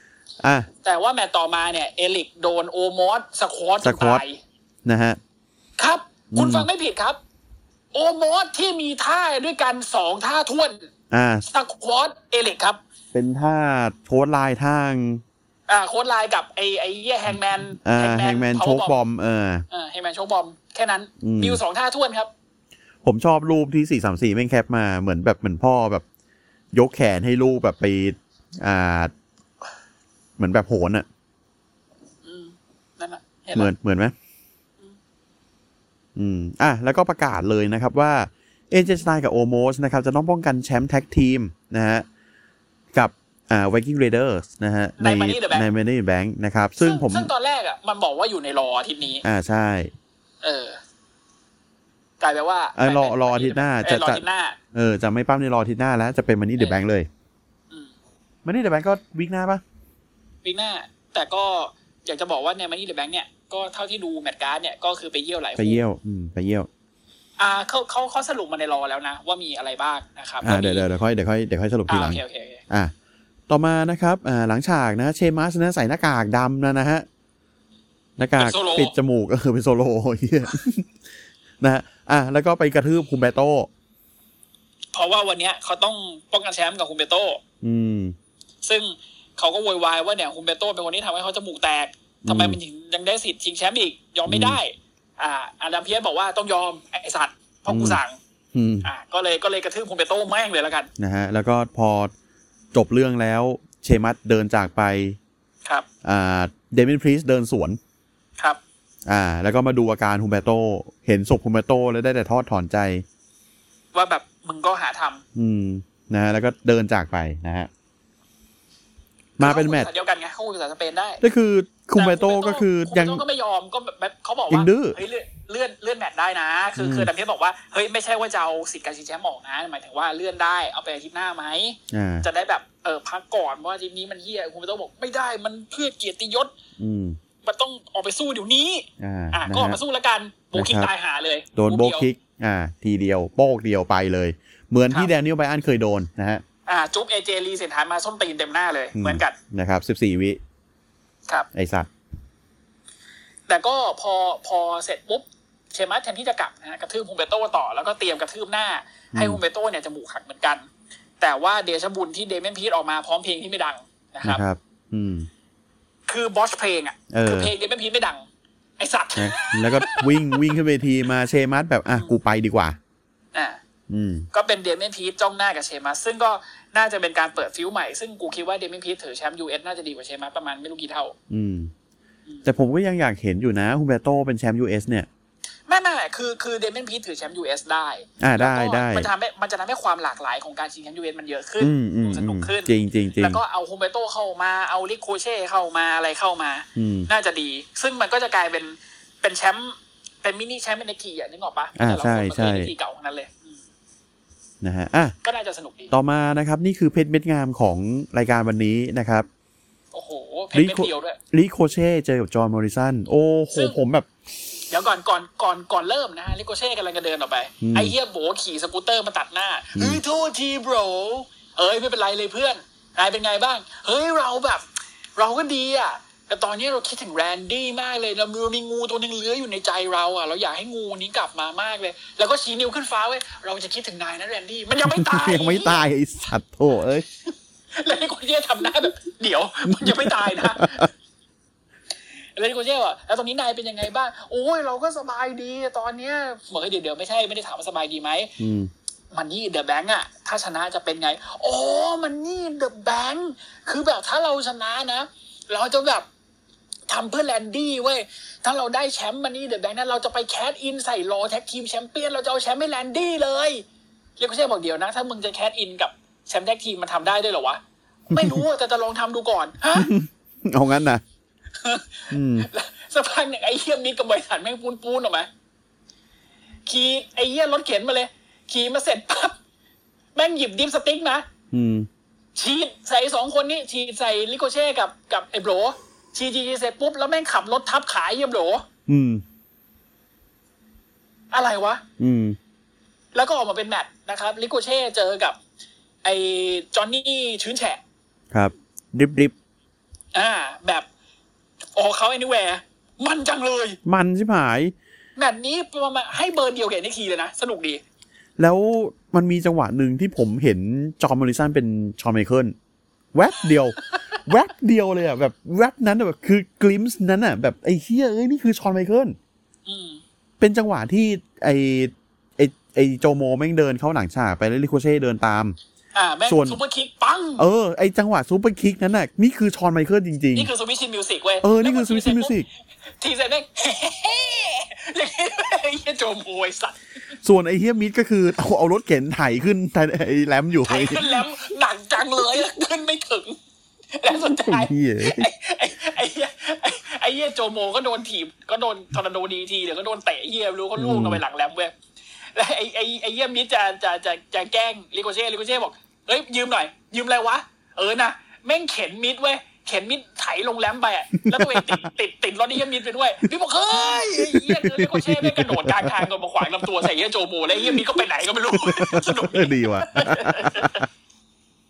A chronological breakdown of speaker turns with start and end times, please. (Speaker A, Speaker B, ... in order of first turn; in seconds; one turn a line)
Speaker A: 0.4-0.7
Speaker B: 0.8-4.4
Speaker A: 3.8-4.2
Speaker A: 4.8-5.2
Speaker B: 5.8-7.2
Speaker A: 6.3-6.7
Speaker B: 7.9-10.9
Speaker A: 11.1-11.4
Speaker B: 11.5-12.8
Speaker A: 13.1-15.2
Speaker B: 15.7-18.9
Speaker A: 17.8-19.6
Speaker B: 19.7-22.3
Speaker A: 21.2-21.6
Speaker A: 23.0-26.0
Speaker A: 26.7-29.1
Speaker A: 30.4-31.1
Speaker B: 32.2-33.7
Speaker A: 33.5-34.1
Speaker A: 36.1-42.0
Speaker A: 42.9-47.3
Speaker B: 45.0-45.7
Speaker B: 46.8-49.2
Speaker A: 49.2-49.9
Speaker B: 50.4-50.8
Speaker B: 52.2-54.6
Speaker A: 52.8-57.1
Speaker A: 58.4-59.6
Speaker B: 60.4-65.8
Speaker A: 65.5-66.7
Speaker B: 67.4-70.9
Speaker A: 70.4-72.9
Speaker B: 71.9-72.6
Speaker A: 73.5-77.0
Speaker A: 78.2-80.9
Speaker B: 78.4-78.9
Speaker A: 81.6-83.7
Speaker B: 84.9-87.4
Speaker A: 87.6-88.1
Speaker B: 88.6-98.2
Speaker A: 92.2-92.6
Speaker A: 94.3-94.6
Speaker A: 97.7-98.0
Speaker A: 98.5-98.9
Speaker B: 98.8-100.9
Speaker A: 101.0-102.1
Speaker A: 102.7-105.2
Speaker A: 106.0-107.8
Speaker A: 109.0-113.0
Speaker B: 113.9-115.2
Speaker A: 115.3-117.7
Speaker A: 119.4-119.9
Speaker B: 119.4-121.2
Speaker A: 121.2-123.2
Speaker B: 122.0-136.5
Speaker A: 124.5-125.0
Speaker A: 126.8-127.1
Speaker A: 131.9-132.2
Speaker A: 136.8-137.2
Speaker B: 137.4-142.1
Speaker A: 139.0-139.8
Speaker A: 140.5-140.9
Speaker A: 141.6-146.4
Speaker B: 146.7-149.4
Speaker A: 148.9-150.4
Speaker A: 151.5-151.9
Speaker B: 153.5-160.7
Speaker A: 159.1-159.4
Speaker B: 161.2-164.4
Speaker A: 164.2-165.3
Speaker B: 166.1-168.2
Speaker A: 167.1-167.5
Speaker B: 168.8-170.4
Speaker A: 169.2-172.8
Speaker B: 173.3-173.6
Speaker A: 173.9-174.3
Speaker B: 174.3-181.1
Speaker A: 181.3-181.7
Speaker A: 182.4-185.1
Speaker B: 185.7-203.6
Speaker A: 188.2-189.1
Speaker A: 191.6-193.4
Speaker A: 196.8-197.1
Speaker A: 201.8-202.7
Speaker A: 204.6-205.1
Speaker B: 205.2-205.9
Speaker A: 205.9-209.3
Speaker B: 209.9-211.2
Speaker A: 210.5-214.1
Speaker B: 214.7-224.6
Speaker A: 217.6-217.9
Speaker A: 219.7-220.0
Speaker B: 225.2-235.8
Speaker A: 234.8-237.1
Speaker B: 237.8-240.9
Speaker A: 239.7-240.9
Speaker B: 242.4-248.3
Speaker A: 248.4-248.7
Speaker B: 249.1-256.1
Speaker B: 256.9-263.6
Speaker B: 264.2-269.9
Speaker A: 268.1-268.4
Speaker A: 269.7-271.0
Speaker B: 271.6-275.3
Speaker A: 272.1-272.5
Speaker B: 276.6-279.4
Speaker B: 280.1-281.2
Speaker A: 281.5-281.9
Speaker B: 282.3-288.6
Speaker A: 288.9-289.2
Speaker B: 291.3-291.8
Speaker A: 292.0-292.4
Speaker B: 293.1-295.4
Speaker B: 296.0-297.8
Speaker A: 298.3-299.3
Speaker B: 300.1-300.9
Speaker B: 301.8-303.8
Speaker A: 303.8-304.7
Speaker B: 305.1-307.8
Speaker A: 308.4-312.6
Speaker A: 313.1-319.2
Speaker B: 319.6-320.0
Speaker A: 320.4-325.6
Speaker B: 325.9-327.4
Speaker A: 326.3-326.6
Speaker A: 327.4-330.5
Speaker B: 330.3-332.4
Speaker A: 331.4-332.5
Speaker B: 333.0-336.8
Speaker A: 337.2-341.2
Speaker B: 340.6-343.4
Speaker B: 343.9-351.7
Speaker A: 344.2-345.3
Speaker A: 350.8-351.2
Speaker B: 352.3-370.8
Speaker A: 361.2-361.8
Speaker A: 363.8-366.1
Speaker A: 367.6-370.9